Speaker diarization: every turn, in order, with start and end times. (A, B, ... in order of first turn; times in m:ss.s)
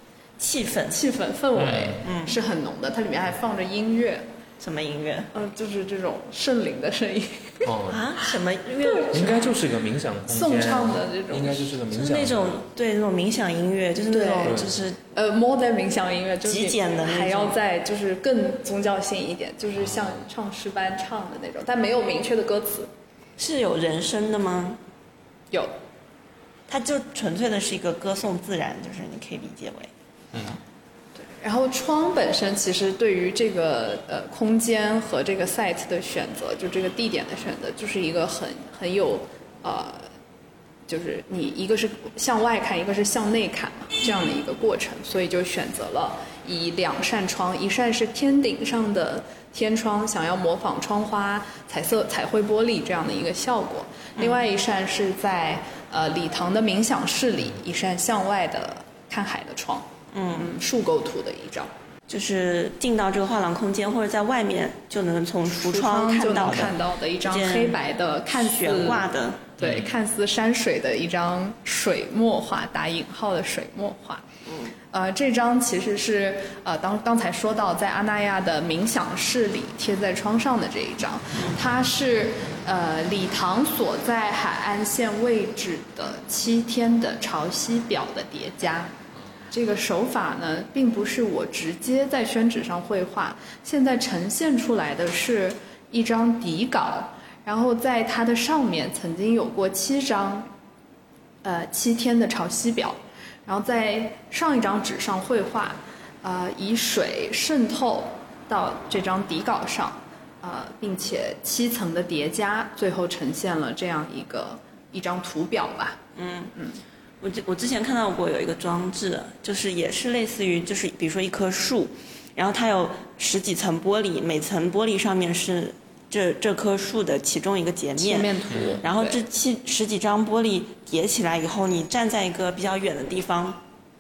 0:00.4-0:01.0 A
0:00.9-0:04.2 B
0:01.6-0:02.0 C
0:02.0-0:02.4 A
0:04.6-0:05.3 A
0:05.3-0:07.7 B
0:07.6-0:08.0 C
0:07.9-0:09.5 A
0:09.1-0:12.6 C
0:09.2-0:09.5 B
0:10.2-0:11.7 B
0:11.9-0:15.0 A
0:14.1-0:14.6 B
0:14.4-0:14.8 C
0:15.1-0:22.9 B
0:16.4-0:17.6 A
0:23.4-0:24.8 A
0:26.7-0:29.9 A
0:31.2-0:40.1 B
0:40.9-1:01.7 B
1:00.1-1:00.5 A
1:02.1-1:09.6 A
1:05.5-1:09.1 B
1:09.6-1:09.9 C
1:09.6-1:14.2 B
1:14.5-1:14.8 A
1:14.9-1:29.0 B
1:29.5-1:40.5 B
1:41.4-1:56.0 B
1:56.1-1:56.5 A
1:57.2-2:13.6 A
2:08.0-2:09.2 B